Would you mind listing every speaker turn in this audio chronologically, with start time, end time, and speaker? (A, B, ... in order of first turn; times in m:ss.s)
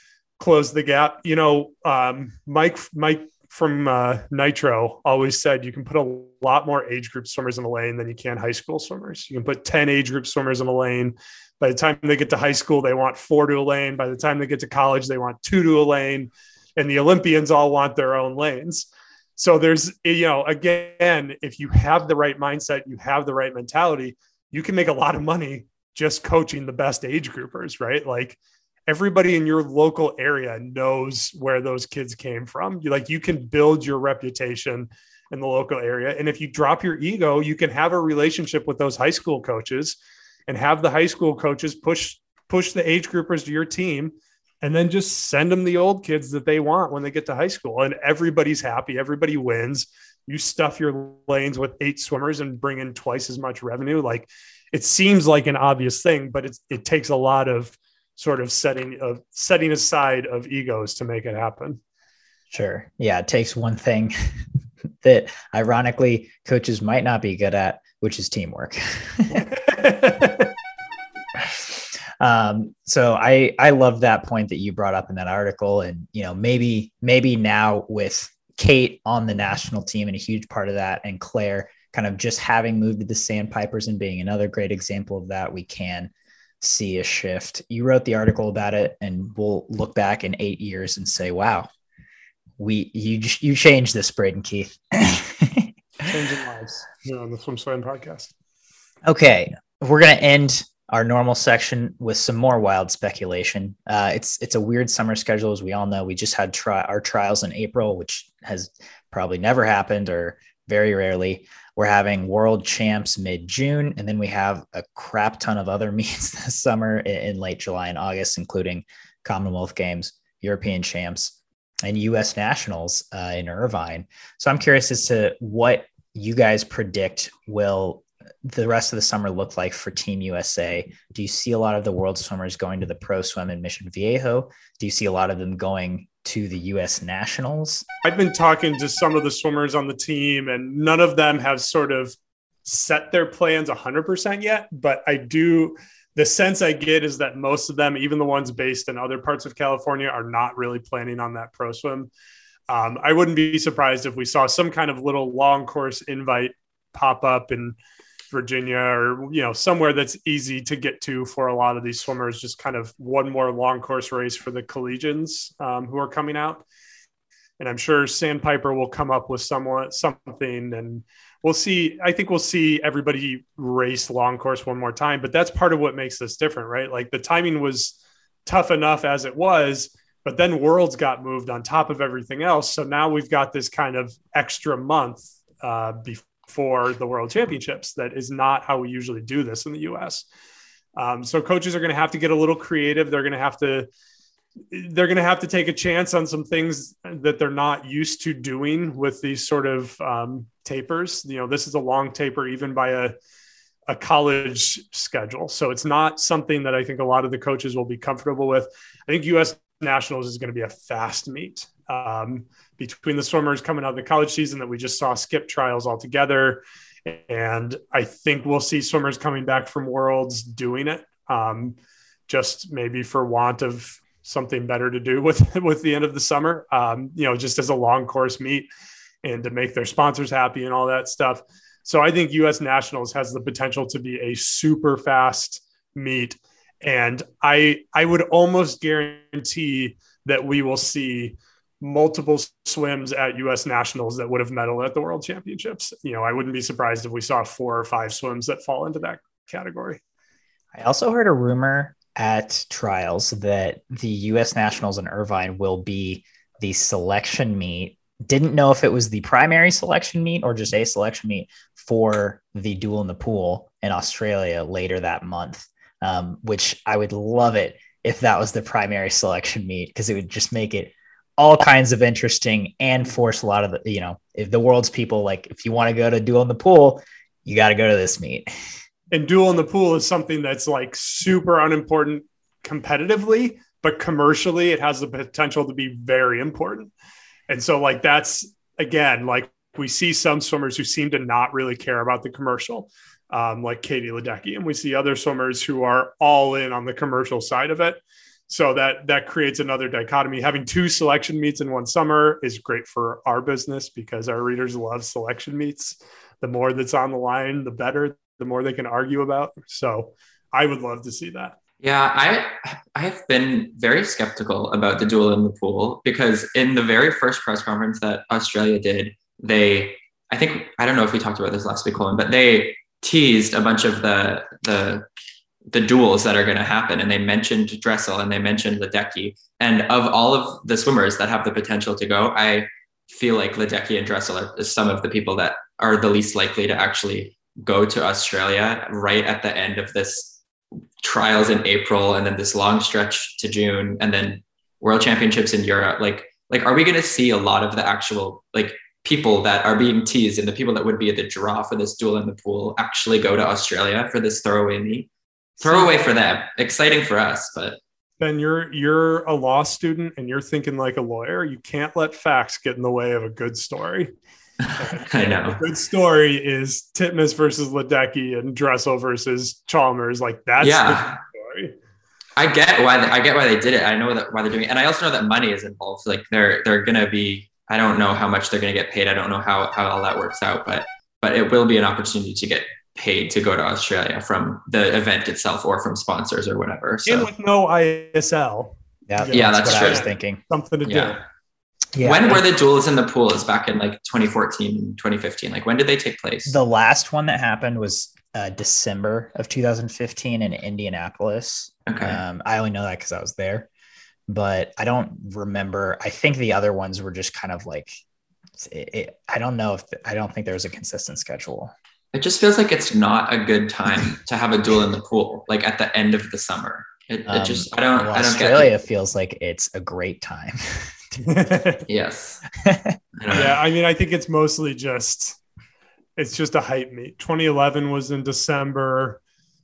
0:00.4-0:40.0 A
0:40.5-1:01.8 A
1:02.5-1:04.1 B
1:05.0-1:09.5 B
1:09.3-1:10.5 A
1:11.4-1:31.7 B
1:32.6-1:35.7 B
1:36.1-1:38.3 A
1:39.0-2:17.8 B
2:18.0-2:32.1 A
2:32.7-2:37.8 A
2:38.3-2:46.6 A
2:47.6-3:10.3 A
3:11.0-3:13.9 A
3:14.7-3:23.2 A
3:23.9-3:41.8 A
3:42.3-3:48.7 A
3:49.2-4:10.0 A
4:10.8-4:38.5 B
4:39.1-4:46.9 A
4:47.5-5:11.6 A
5:11.8-5:25.1 C
5:25.7-5:40.4 C
5:41.0-5:55.1 C
5:55.6-5:56.1 A
5:55.6-5:57.8 C
5:58.2-6:04.1 A
6:04.6-6:05.6 C
6:04.8-6:11.7 A
6:10.6-6:11.2 C
6:12.4-6:27.3 C
6:27.1-6:31.2 A
6:29.1-6:30.4 B
6:29.3-6:30.1 C
6:30.9-6:31.2 C
6:31.9-6:32.4 B
6:32.0-6:36.6 C
6:36.5-6:43.7 B
6:41.9-6:42.2 C
6:44.3-6:48.0 B
6:48.6-6:51.7 B
6:52.1-6:58.7 C
6:57.3-7:01.6 B
7:01.2-7:01.8 A
7:01.9-7:02.5 C
7:02.6-7:03.0 B
7:03.2-7:03.6 C
7:03.3-7:05.4 A
7:06.2-7:09.2 A